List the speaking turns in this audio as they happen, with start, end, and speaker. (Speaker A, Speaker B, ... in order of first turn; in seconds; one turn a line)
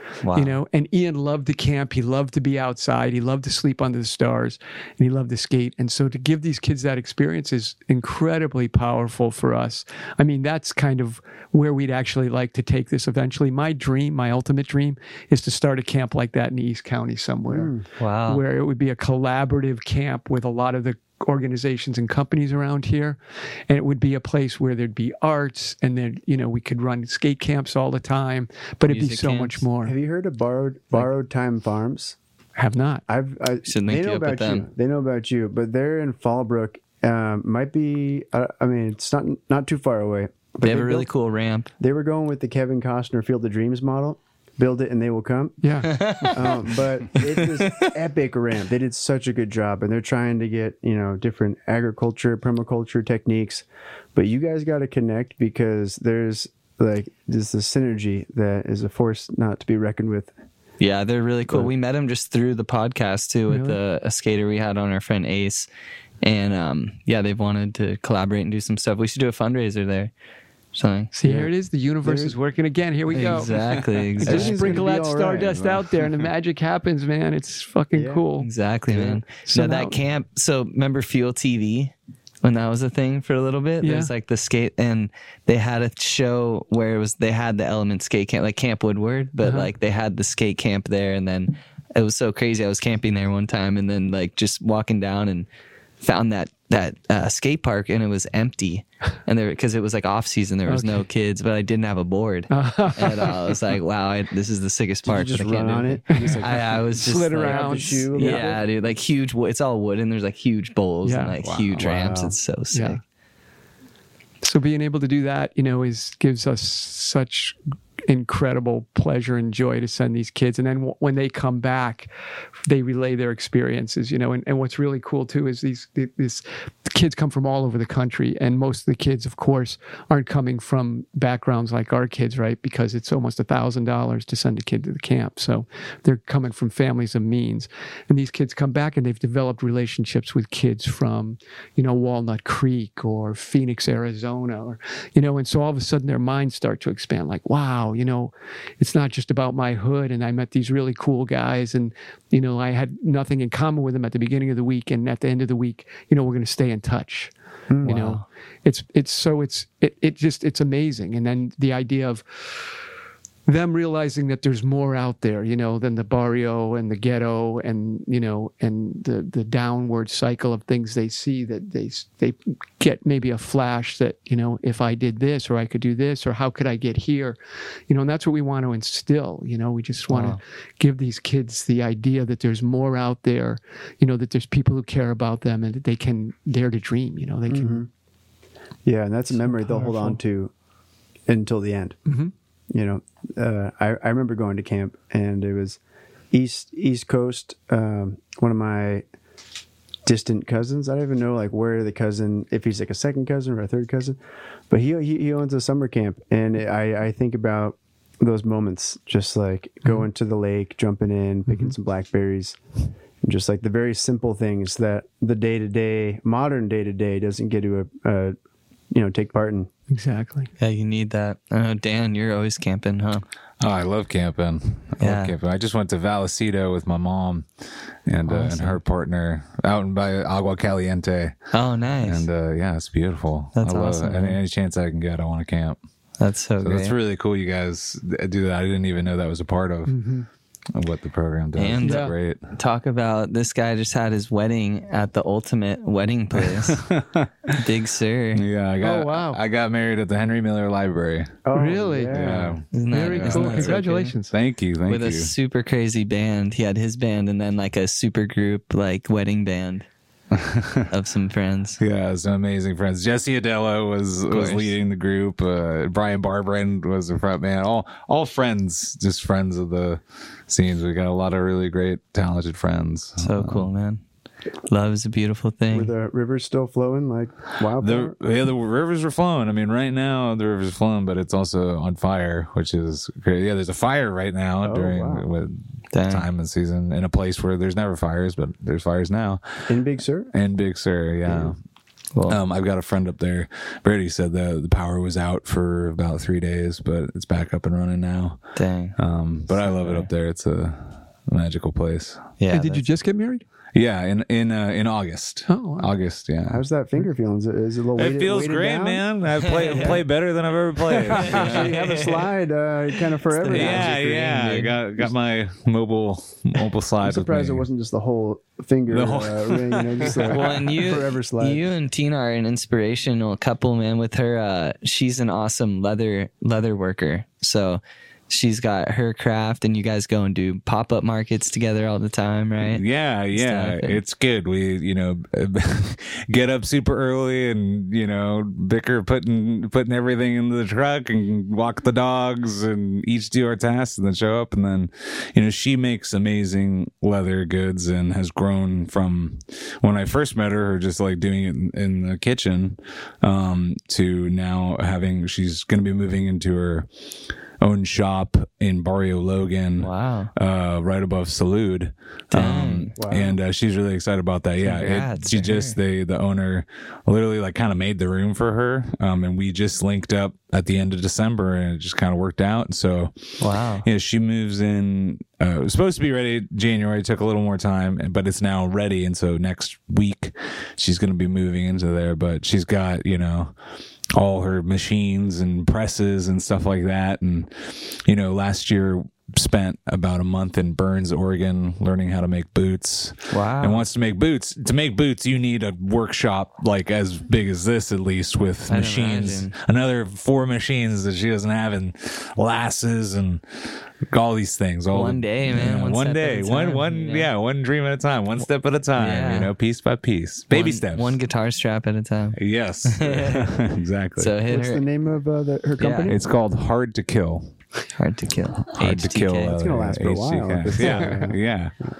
Speaker A: 0.2-0.6
Speaker B: 0.3-29.9
Speaker C: 17.5-17.8
Speaker A: 18.0-18.4
Speaker A: 28.9-29.6
Speaker C: 29.8-32.2
Speaker B: 32.5-33.0
Speaker C: 33.1-41.1
Speaker A: 33.6-34.7
Speaker A: 40.6-41.7
Speaker C: 41.8-60.3
Speaker B: 45.6-46.0
Speaker A: 45.8-46.4
Speaker A: 47.6-47.9
Speaker A: 60.8-65.7
Speaker B: 63.5-63.8
Speaker A: 66.2-70.1
Speaker A: 70.7-71.1
Speaker B: 71.1-73.5
Speaker C: 71.2-71.5
Speaker C: 72.0-72.3
Speaker A: 73.1-74.8
Speaker C: 74.2-75.9
Speaker B: 74.2-78.5
Speaker C: 77.9-78.2
Speaker A: 78.4-95.5
Speaker C: 78.9-79.2
Speaker B: 79.4-80.0
Speaker B: 83.8-84.1
Speaker B: 89.4-89.7
Speaker A: 96.0-113.0
Speaker B: 100.7-101.0
Speaker B: 102.5-103.3
Speaker C: 105.0-108.6
Speaker B: 107.0-108.5
Speaker B: 111.0-111.4
Speaker D: 111.4-111.9
Speaker C: 111.8-112.3
Speaker B: 112.7-113.0
Speaker B: 114.4-122.1
Speaker B: 122.7-162.2
Speaker C: 157.7-158.2
Speaker A: 157.8-158.2
Speaker B: 163.4-187.8
Speaker A: 180.1-180.4
Speaker C: 187.5-187.9
Speaker C: 188.8-190.5
Speaker B: 189.3-190.2
Speaker C: 191.3-192.0
Speaker C: 192.7-195.8
Speaker C: 196.3-199.0
Speaker C: 200.0-204.2
Speaker C: 204.7-212.6
Speaker B: 211.5-211.8
Speaker C: 213.2-218.3
Speaker C: 218.9-219.7
Speaker B: 219.9-220.5
Speaker A: 220.6-223.2
Speaker D: 223.6-227.5
Speaker A: 225.0-225.3
Speaker D: 228.1-231.3
Speaker A: 228.2-228.8
Speaker A: 231.5-232.3
Speaker D: 232.0-235.8
Speaker A: 233.5-234.4
Speaker A: 236.2-237.0
Speaker D: 236.6-240.0
Speaker B: 239.9-240.3
Speaker D: 240.7-242.5
Speaker A: 241.5-246.8
Speaker B: 241.8-242.1
Speaker D: 246.3-247.6
Speaker A: 247.6-248.4
Speaker D: 248.3-251.4
Speaker B: 248.8-249.4
Speaker C: 251.4-252.6
Speaker B: 251.5-252.2
Speaker D: 252.1-255.3
Speaker A: 252.7-254.1
Speaker B: 252.9-254.3
Speaker A: 254.8-259.9
Speaker D: 260.3-260.9
Speaker A: 260.9-261.8
Speaker D: 261.8-273.7
Speaker A: 264.3-264.7
Speaker A: 273.2-274.0
Speaker A: 274.7-275.9
Speaker C: 275.7-278.2
Speaker D: 277.8-289.7
Speaker C: 284.6-285.3
Speaker A: 285.9-286.3
Speaker C: 289.7-290.3
Speaker D: 290.3-291.6
Speaker C: 291.3-291.5
Speaker D: 292.3-302.3
Speaker A: 298.6-299.0
Speaker A: 299.5-300.1
Speaker A: 302.4-302.9
Speaker B: 302.5-303.4
Speaker D: 303.7-306.6
Speaker B: 305.5-305.9
Speaker C: 306.4-309.0
Speaker D: 307.9-311.8
Speaker A: 309.4-310.0
Speaker C: 311.1-314.1
Speaker A: 311.2-312.2
Speaker A: 313.3-315.1
Speaker D: 313.5-317.6
Speaker C: 317.0-321.7
Speaker D: 318.9-320.6
Speaker A: 320.2-334.0
Speaker D: 332.6-356.9
Speaker D: 357.6-373.2
Speaker A: 359.8-360.3
Speaker A: 362.3-362.9
Speaker C: 362.9-363.4
Speaker A: 364.6-365.8
Speaker A: 373.4-373.9
Speaker D: 373.8-383.6
Speaker D: 384.1-411.2
Speaker A: 393.3-393.9
Speaker A: 398.7-399.5
Speaker A: 404.9-407.3
Speaker A: 408.9-409.5
Speaker A: 410.5-413.6
Speaker D: 412.3-414.3
Speaker A: 414.2-414.9
Speaker C: 414.4-416.2
Speaker A: 415.8-416.1
Speaker D: 416.1-417.5
Speaker A: 418.0-419.5
Speaker D: 418.7-421.7
Speaker C: 419.5-421.4